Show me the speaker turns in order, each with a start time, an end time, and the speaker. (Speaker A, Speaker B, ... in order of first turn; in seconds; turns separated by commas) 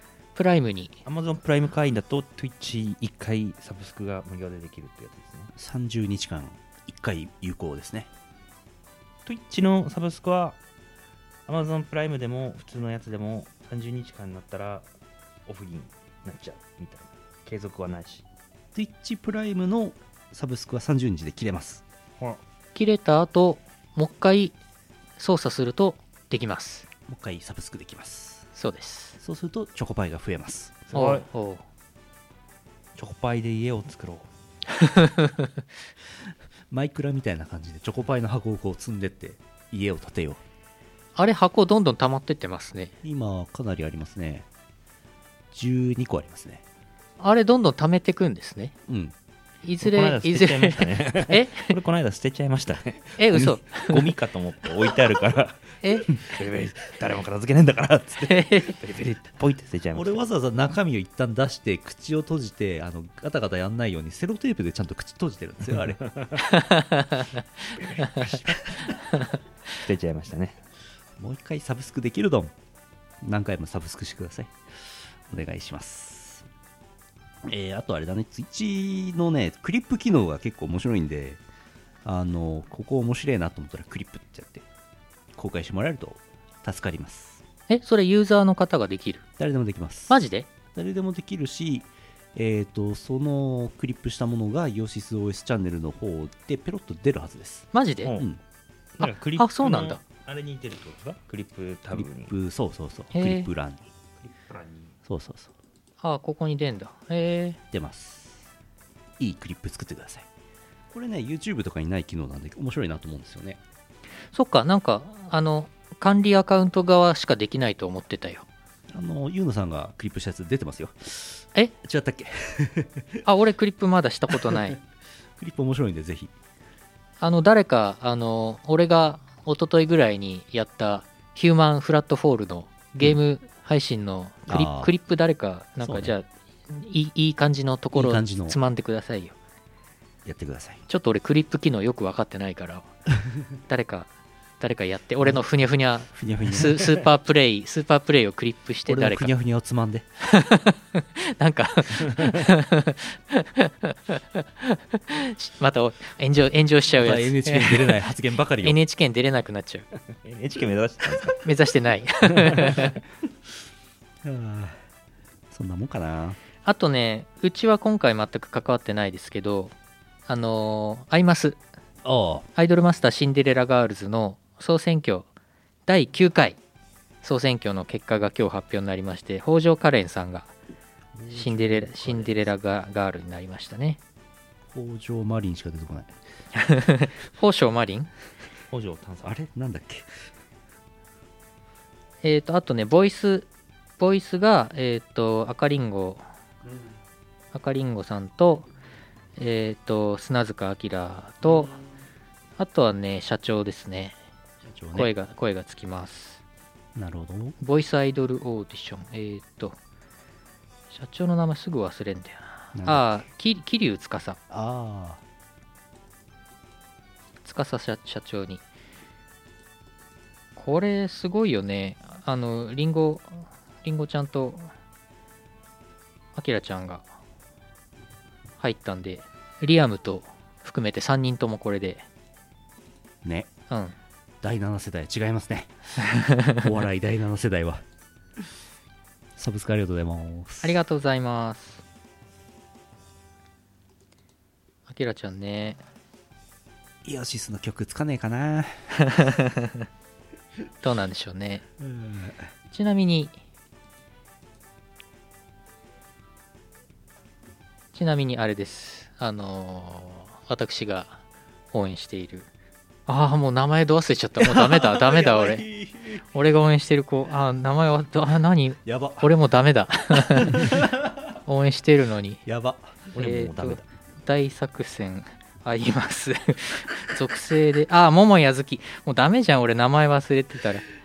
Speaker A: 0.3-1.0, Speaker B: 1.0-5.5, Speaker C: 5.5-8.1, Speaker B: 9.2-10.6, Speaker B: 11.4-14.9, Speaker B: 15.4-18.2, Speaker C: 18.7-21.8, Speaker A: 22.7-24.6, Speaker A: 25.2-26.9, Speaker C: 27.1-28.5, Speaker A: 28.6-29.2, Speaker C: 29.2-30.9, Speaker B: 30.9-31.3, Speaker A: 30.9-31.6, Speaker B: 33.0-34.3, Speaker A: 34.8-35.4, Speaker C: 36.7-40.4, Speaker A: 41.1-42.9, Speaker C: 43.0-44.5, Speaker C: 45.5-46.6, Speaker A: 47.2-48.7, Speaker C: 48.9-49.1, Speaker A: 49.6-51.7, Speaker B: 49.8-60.2, Speaker A: 53.2-54.1, Speaker A: 55.8-56.1, Speaker A: 58.3-58.7, Speaker C: 59.9-66.0, Speaker B: 66.0-66.4, Speaker A: 66.4-67.4, Speaker B: 67.7-70.6, Speaker C: 71.2-72.5, Speaker C: 73.2-74.5, Speaker C: 75.3-76.5, Speaker C: 77.4-81.4, Speaker C: 82.0-84.7, Speaker C: 85.3-87.4, Speaker A: 87.7-89.2, Speaker C: 89.4-98.4, Speaker A: 90.1-90.5, Speaker A: 97.7-98.1, Speaker B: 99.0-102.3, Speaker A: 99.0-100.0, Speaker C: 101.9-103.9, Speaker A: 103.1-103.5, Speaker B: 104.2-105.0, Speaker C: 105.0-105.5, Speaker A: 106.0-107.6, Speaker C: 107.7-108.5, Speaker C: 109.2-110.3, Speaker C: 110.9-113.6, Speaker A: 114.3-118.5, Speaker C: 118.9-123.2, Speaker A: 123.2-124.8, Speaker C: 125.4-126.3, Speaker A: 127.2-139.3, Speaker C: 134.5-134.9, Speaker C: 135.8-136.1, Speaker C: 137.9-138.6, Speaker C: 140.2-140.8, Speaker A: 140.9-142.9, Speaker A: 143.6-149.3, Speaker C: 146.1-146.9, Speaker C: 148.9-150.1, Speaker A: 150.2-158.1, Speaker C: 156.9-158.8, Speaker A: 158.6-159.9, Speaker B: 160.1-161.5, Speaker A: 161.4-162.9, Speaker B: 162.3-162.9, Speaker C: 164.2-164.8, Speaker C: 165.5-166.4, Speaker A: 166.6-169.7, Speaker A: 170.3-171.6, Speaker C: 172.0-172.5, Speaker A: 172.6-175.3, Speaker A: 175.9-176.6, Speaker A: 177.2-180.5, Speaker C: 181.1-182.5, Speaker A: 181.3-184.0, Speaker C: 184.7-186.2, Speaker A: 186.5-188.1, Speaker B: 188.7-189.3, Speaker C: 189.2-190.1, Speaker A: 192.2-193.5, Speaker A: 194.0-196.2, Speaker A: 197.5-198.7, Speaker A: 199.4-201.7, Speaker A: 202.6-204.2, Speaker C: 204.6-205.1, Speaker A: 204.9-206.4, Speaker C: 206.9-207.6, Speaker A: 207.6-209.8, Speaker A: 210.9-214.4, Speaker C: 212.7-213.3, Speaker C: 214.5-215.2, Speaker A: 217.4-218.6, Speaker A: 220.6-224.7, Speaker A: 226.3-227.2, Speaker A: 228.6-232.1, Speaker C: 233.2-233.5, Speaker A: 233.7-233.9, Speaker C: 234.4-235.7, Speaker A: 236.1-236.6, Speaker C: 236.5-237.8, Speaker C: 239.4-240.8, Speaker A: 240.6-241.8, Speaker A: 244.9-245.8, Speaker C: 247.0-248.9, Speaker A: 249.0-249.8, Speaker A: 250.8-251.6, Speaker C: 251.8-252.5, Speaker A: 252.7-253.4, Speaker A: 257.9-262.5, Speaker A: 263.1-265.6, Speaker C: 264.4-266.2, Speaker A: 266.3-270.9, Speaker C: 268.8-269.4, Speaker C: 270.3-271.2, Speaker A: 271.4-272.4, Speaker C: 272.4-273.8, Speaker B: 273.1-273.8, Speaker A: 273.1-280.9